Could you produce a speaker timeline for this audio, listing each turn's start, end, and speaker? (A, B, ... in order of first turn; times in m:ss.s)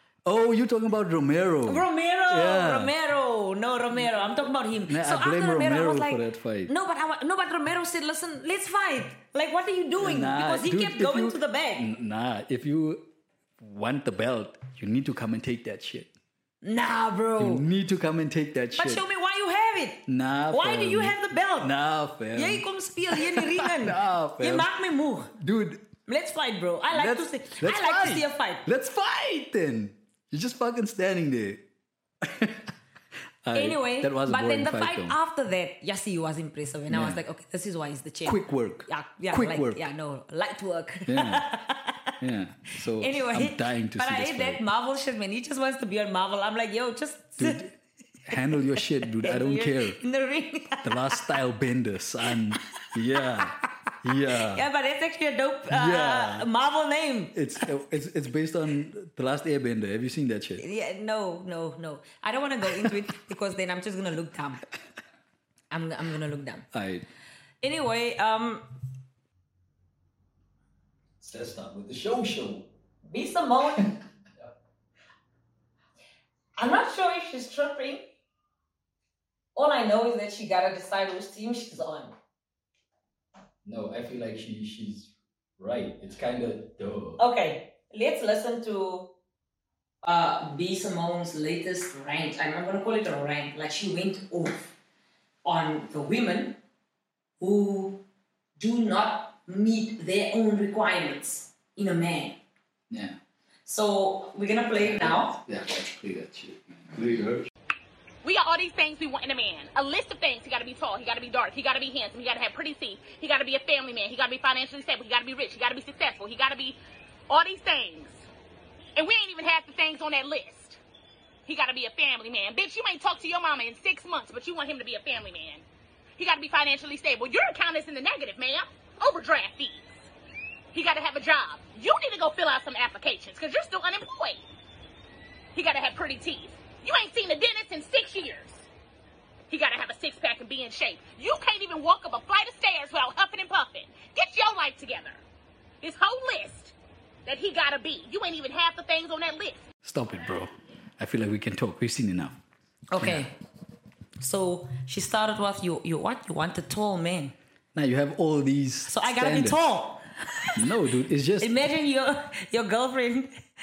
0:00.2-0:02.9 A
0:01.6-0:11.8 B
0:04.8-0:06.7 A
0:10.0-0:13.0 A
0:13.6-0:16.1 A
0:16.6-0:17.6 B
0:17.4-0:19.0 A
0:18.8-0:21.7 B
0:20.1-0:24.7 A
0:22.3-0:25.3 B
0:25.3-0:25.9 A
0:26.1-0:28.6 B
0:26.9-0:31.6 A
0:32.2-0:32.7 A
0:33.4-0:35.2 A
0:33.5-0:42.1 B
0:36.9-0:37.2 A
0:38.2-0:39.8 A
0:41.1-0:41.5 A
0:42.2-0:44.6 A
0:43.0-0:47.7 B
0:47.4-0:50.0 A
0:48.5-0:51.3 B
0:50.8-0:54.6 A
0:53.1-0:53.5 B
0:54.2-0:57.3 B
0:55.7-0:56.5 A
0:57.3-1:00.6 A
1:00.6-1:04.6 B
1:05.7-1:06.7 B
1:06.7-1:07.1 A
1:07.6-1:08.6 B
1:11.2-1:12.7 A
1:13.0-1:13.9 B
1:16.6-1:18.1 B
1:19.5-1:22.1 B
1:23.6-1:27.2 A
1:27.2-1:29.1 B
1:30.0-1:34.7 B
1:35.4-1:36.6 B
1:37.4-1:38.0 B
1:38.6-1:42.4 B
1:42.9-1:43.2 A
1:43.6-1:45.3 B
1:44.8-1:47.5 A
1:48.2-1:56.8 C
1:57.3-1:58.2 C
1:59.0-2:00.8 C
2:01.4-2:05.6 C
2:06.2-2:09.9 C
2:10.7-2:14.4 C
2:15.5-2:18.6 C
2:19.5-2:25.2 C
2:25.8-2:26.7 C
2:27.2-2:29.7 C
2:29.8-2:32.4 A
2:32.9-2:33.3 B
2:33.0-2:33.2 A
2:34.2-2:37.3 B
2:37.7-2:39.7 A
2:38.9-2:40.6 B
2:40.6-2:41.6 A
2:41.4-2:43.4 B